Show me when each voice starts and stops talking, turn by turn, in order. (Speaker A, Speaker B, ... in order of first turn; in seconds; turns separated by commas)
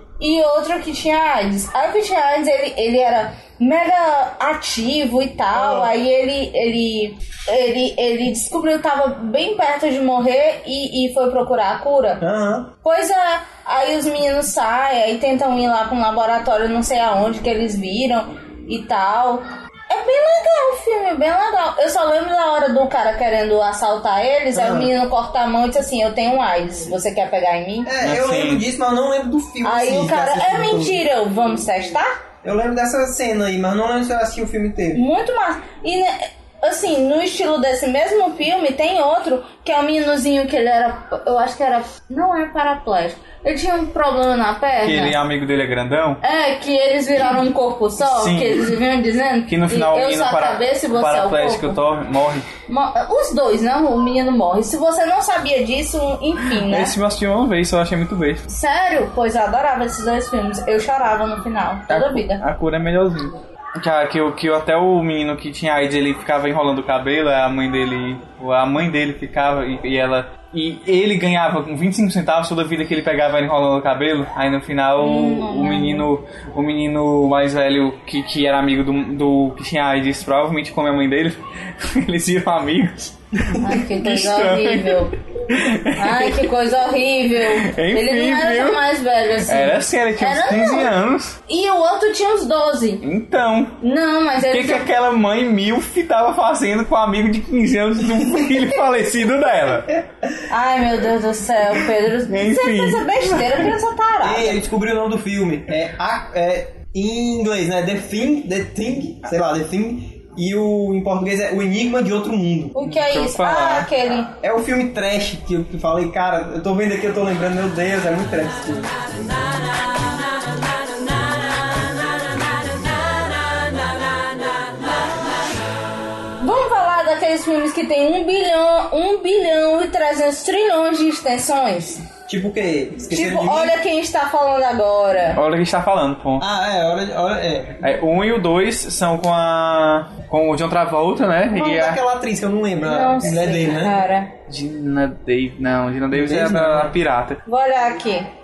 Speaker A: 0.2-12.2, Speaker B: 5.5-5.9, Speaker B: 12.2-12.7, Speaker A: 12.8-27.9, Speaker B: 24.5-24.9, Speaker B: 27.8-31.0, Speaker C: 28.0-28.6, Speaker A: 29.6-32.1, Speaker B: 32.4-35.0, Speaker A: 34.9-45.1, Speaker C: 44.8-46.2, Speaker A: 46.2-51.8, Speaker C: 48.0-48.8, Speaker C: 49.5-52.5, Speaker A: 52.7-56.9, Speaker C: 56.5-58.4, Speaker A: 58.5-62.4, Speaker C: 61.9-86.5, Speaker A: 75.0-76.0, Speaker A: 83.6-85.1, Speaker A: 86.0-90.9, Speaker C: 87.4-88.8, Speaker C: 89.5-91.4, Speaker A: 91.5-93.0, Speaker C: 93.0-93.8, Speaker A: 93.8-94.8, Speaker C: 94.5-99.9, Speaker A: 100.5-104.6, Speaker C: 102.2-103.7, Speaker B: 104.2-112.8, Speaker A: 112.7-114.3, Speaker C: 112.8-113.9, Speaker B: 114.4-118.9, Speaker A: 126.4-132.0, Speaker B: 132.3-133.7, Speaker A: 133.1-135.4, Speaker C: 135.3-136.4, Speaker B: 136.4-137.8, Speaker C: 137.8-142.0, Speaker B: 141.5-144.0, Speaker A: 142.8-144.3, Speaker C: 144.5-147.4, Speaker B: 146.1-146.9, Speaker A: 147.4-148.3